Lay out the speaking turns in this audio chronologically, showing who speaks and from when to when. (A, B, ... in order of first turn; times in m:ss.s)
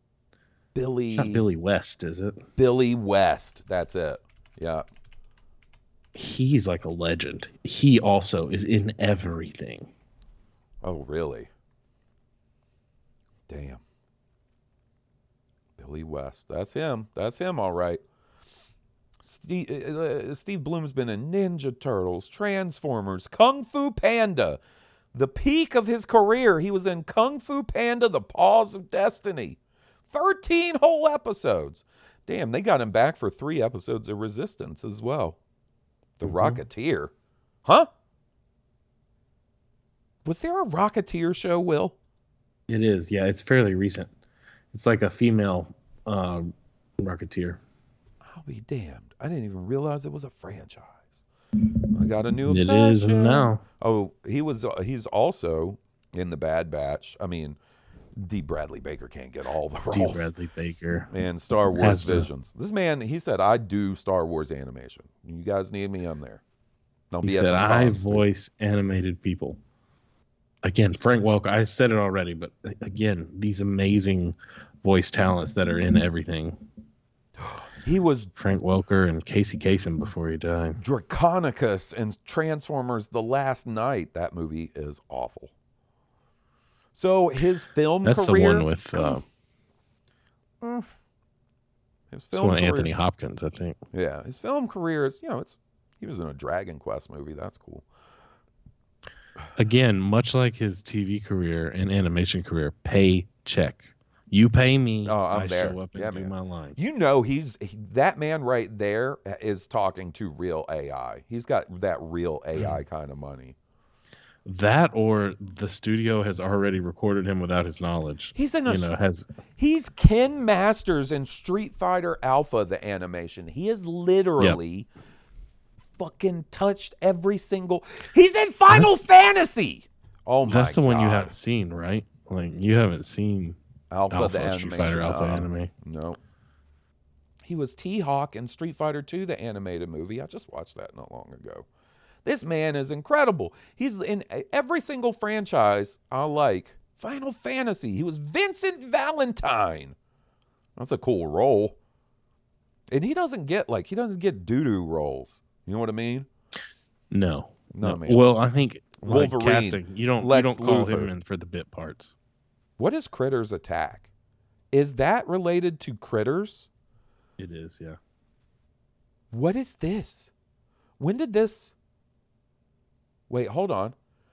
0:00.7-0:01.4 A
0:01.1-0:02.4 B
0:02.6-0:04.8 A
0:06.2-0:09.9 B
0:10.8-0:11.5 A
0:13.5-0:13.8 A
0:15.8-0:18.0 A
0:19.2-0:24.6 A
0:25.1-0:29.6 A
0:30.1-0:35.4 A
0:36.2-0:37.1 A
0:36.3-0:36.6 B
0:40.2-0:42.0 A
0:42.7-0:44.1 B
0:44.7-0:47.6 B
0:48.2-0:51.2 A
0:51.9-0:57.6 A
0:52.5-0:53.6 B
0:58.2-1:00.3 A
0:59.9-1:01.1 B
1:01.1-1:06.4 A
1:01.8-1:02.3 B
1:07.1-1:08.3 A
1:07.2-1:09.6 B
1:10.6-1:16.6 B
1:17.4-1:18.3 A
1:18.4-1:20.8 B
1:20.8-1:25.5 A
1:27.0-1:29.2 A
1:28.0-1:29.2 B
1:30.6-1:30.9 A
1:32.1-1:32.9 A
1:32.3-1:33.8 B
1:33.9-1:37.9 A
1:39.6-1:46.8 B
1:45.0-1:53.6 A
1:54.5-1:59.3 B
1:58.3-1:59.0 A
1:59.6-2:04.9 A
2:05.9-2:11.3 A
2:10.5-2:13.6 B
2:13.9-2:16.2 A
2:14.1-2:15.7 B
2:17.4-2:21.7 A
2:22.2-2:30.0 A
2:30.8-2:31.8 A
2:32.9-2:36.3 A
2:37.1-2:42.2 B
2:37.7-2:38.2 A
2:39.0-2:41.1 A
2:42.8-2:44.1 A
2:44.7-2:46.7 A
2:47.4-2:48.0 B
2:49.3-2:50.3 A
2:51.0-2:51.7 A
2:53.3-2:54.0 A